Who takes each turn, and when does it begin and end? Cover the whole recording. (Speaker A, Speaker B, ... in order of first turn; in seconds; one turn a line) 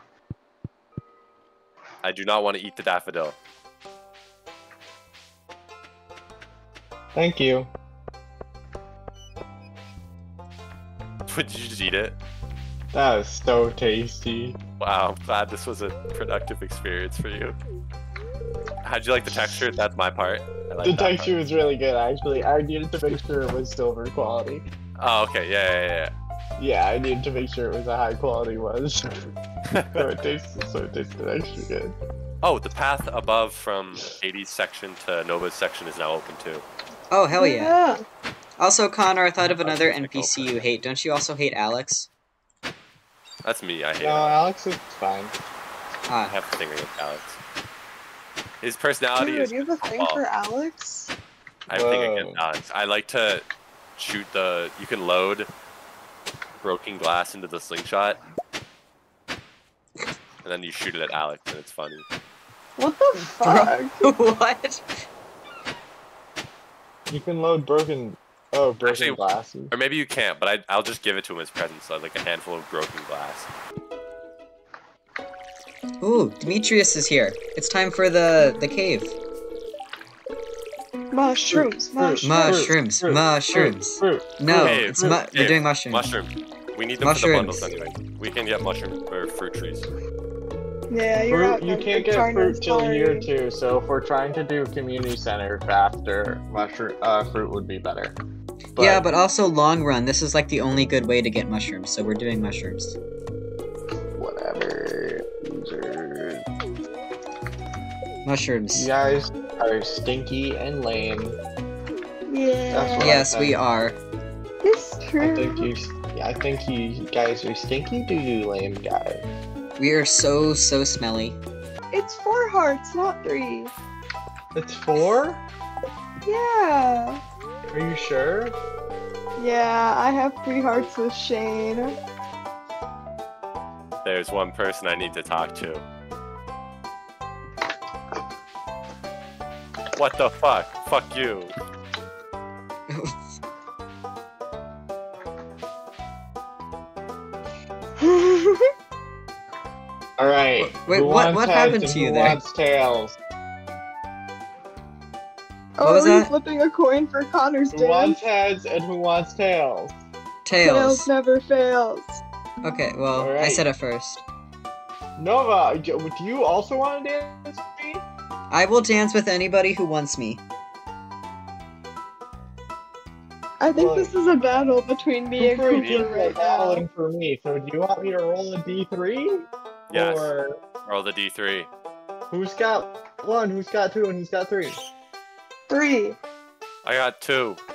Speaker A: 2.0-3.4
Speaker B: 7.2-7.7
Speaker A: 11.3-12.2
Speaker B: 12.9-14.6
Speaker A: 14.8-17.6
Speaker A: 18.8-21.4
Speaker B: 19.3-19.6
Speaker B: 20.8-24.7
Speaker A: 25.0-26.1
Speaker B: 26.6-29.1
Speaker A: 29.7-30.1
Speaker B: 29.9-31.9
Speaker A: 32.4-36.6
Speaker C: 37.1-37.8
Speaker D: 37.4-38.0
Speaker C: 38.6-42.1
Speaker A: 39.5-40.6
Speaker A: 43.4-44.4
Speaker B: 44.0-45.3
Speaker C: 46.1-46.4
Speaker A: 46.3-47.4
Speaker A: 48.6-50.2
Speaker D: 49.2-51.1
Speaker A: 51.7-55.5
Speaker B: 51.7-52.4
Speaker A: 56.6-58.2
Speaker A: 60.4-62.0
Speaker D: 62.8-64.1
Speaker C: 63.4-64.8
Speaker B: 67.1-69.7
Speaker A: 68.8-73.5
Speaker C: 76.0-79.2
Speaker D: 81.1-82.7
Speaker B: 81.5-85.2
Speaker C: 82.2-86.0
Speaker A: 84.5-89.9
Speaker C: 87.0-87.7
Speaker D: 90.9-93.3
Speaker B: 91.2-98.2
Speaker B: 98.8-99.0
Speaker C: 98.8-103.0
Speaker B: 104.2-106.4
Speaker C: 108.2-108.9
Speaker B: 108.8-111.4
Speaker D: 112.3-113.1
Speaker B: 112.7-113.6
Speaker C: 113.0-114.0
Speaker D: 114.6-115.7
Speaker B: 115.2-119.3
Speaker C: 119.8-121.4
Speaker D: 121.9-123.7
Speaker B: 124.5-125.4
Speaker D: 126.3-127.2
Speaker B: 127.7-128.6
Speaker D: 129.4-132.0
Speaker A: 134.0-135.8
Speaker A: 139.9-141.5
Speaker C: 142.9-143.2
Speaker D: 148.1-148.7
Speaker B: 150.2-153.2
Speaker C: 150.6-152.4
Speaker D: 155.8-158.2
Speaker C: 155.8-156.3
Speaker B: 157.7-159.9
Speaker C: 160.4-161.1
Speaker D: 160.6-162.2
Speaker C: 162.6-164.2
Speaker B: 163.2-163.6
Speaker B: 165.2-168.0
Speaker C: 168.5-170.4
Speaker D: 173.6-176.8
Speaker B: 173.7-174.1
Speaker B: 175.4-180.6
Speaker A: 179.9-180.3
Speaker A: 180.8-181.7
Speaker B: 182.3-184.8
Speaker D: 185.7-186.2
Speaker A: 186.8-187.6